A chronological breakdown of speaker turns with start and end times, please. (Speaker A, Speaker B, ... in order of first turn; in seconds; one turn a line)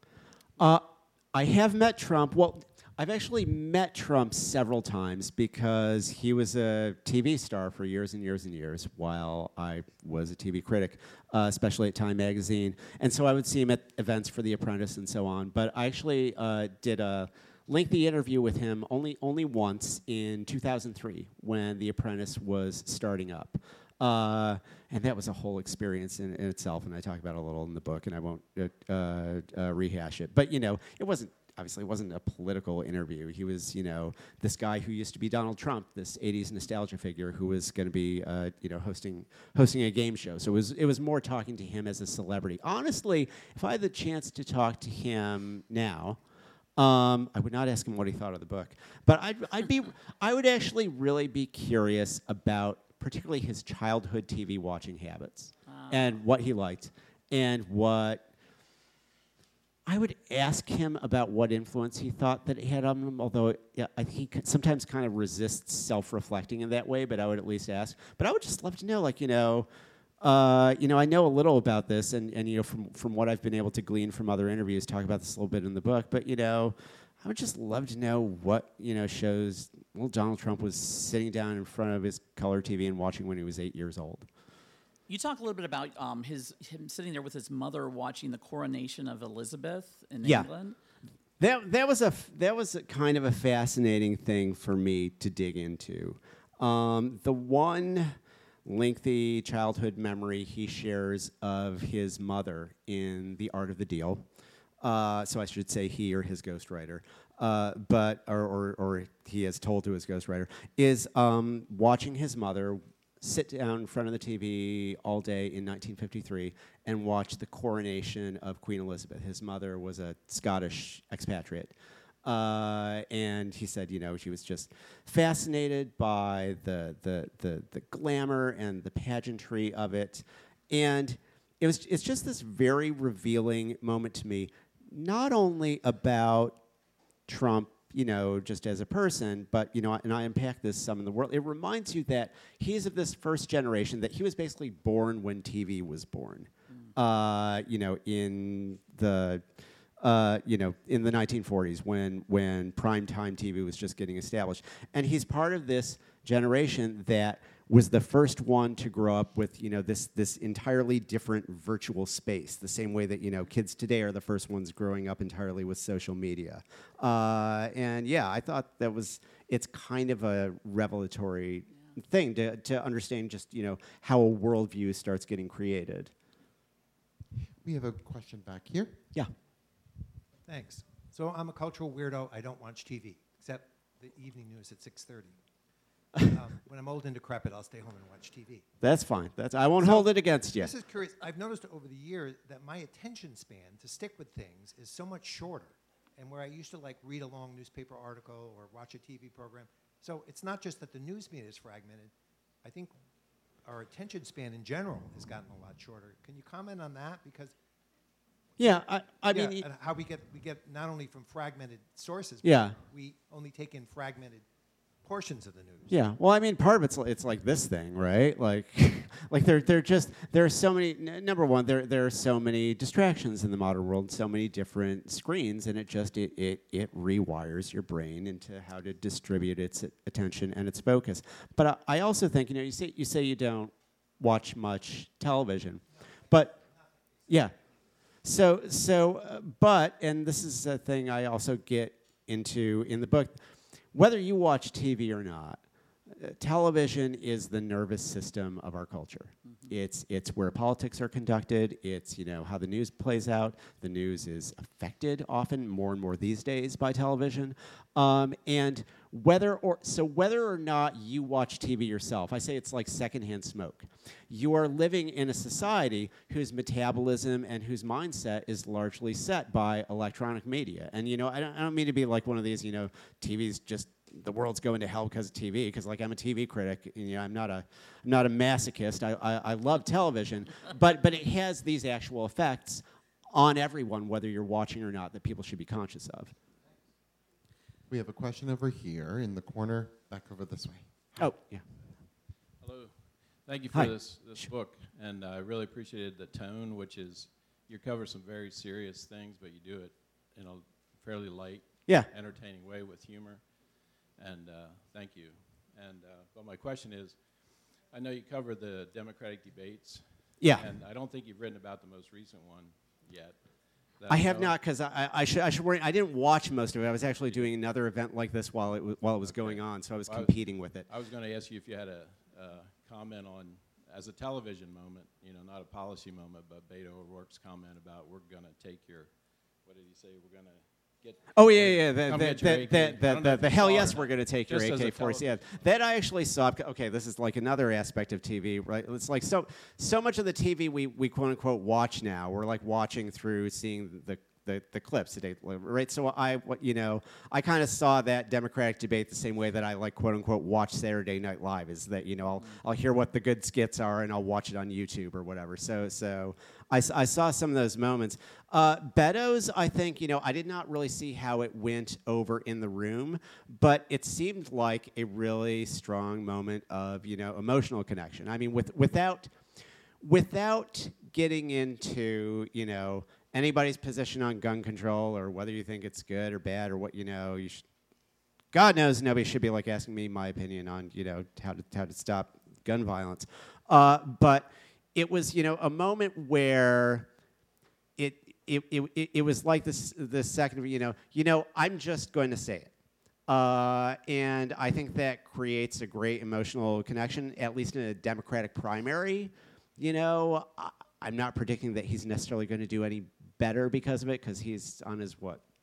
Speaker A: 0.6-46.2
Speaker A: 46.8-58.2
Speaker B: 55.7-56.1
Speaker A: 59.9-69.7
Speaker A: 70.2-84.3
Speaker B: 85.1-90.8
Speaker A: 90.2-90.5
Speaker A: 91.4-104.2
Speaker A: 104.8-136.6
Speaker A: 137.3-149.5
Speaker A: 150.0-176.1
Speaker C: 177.6-179.0
Speaker D: 180.5-185.4
Speaker D: 186.2-188.6
Speaker A: 188.8-190.7
Speaker D: 189.8-202.1
Speaker D: 202.6-202.9
Speaker D: 203.6-207.6
Speaker A: 208.6-209.7
Speaker D: 209.3-214.4
Speaker A: 212.4-212.8
Speaker D: 215.0-216.0
Speaker A: 215.9-236.6
Speaker D: 236.0-236.9
Speaker A: 237.3-237.5
Speaker A: 238.2-243.4
Speaker A: 243.9-286.3
Speaker C: 287.9-291.1
Speaker A: 291.2-291.6
Speaker E: 292.6-314.6
Speaker A: 293.7-294.5
Speaker A: 310.4-310.7
Speaker A: 314.1-320.9
Speaker E: 319.2-335.5
Speaker A: 331.3-369.3
Speaker A: 370.0-377.6
Speaker A: 378.5-387.1
Speaker A: 388.0-392.7
Speaker A: 393.3-405.4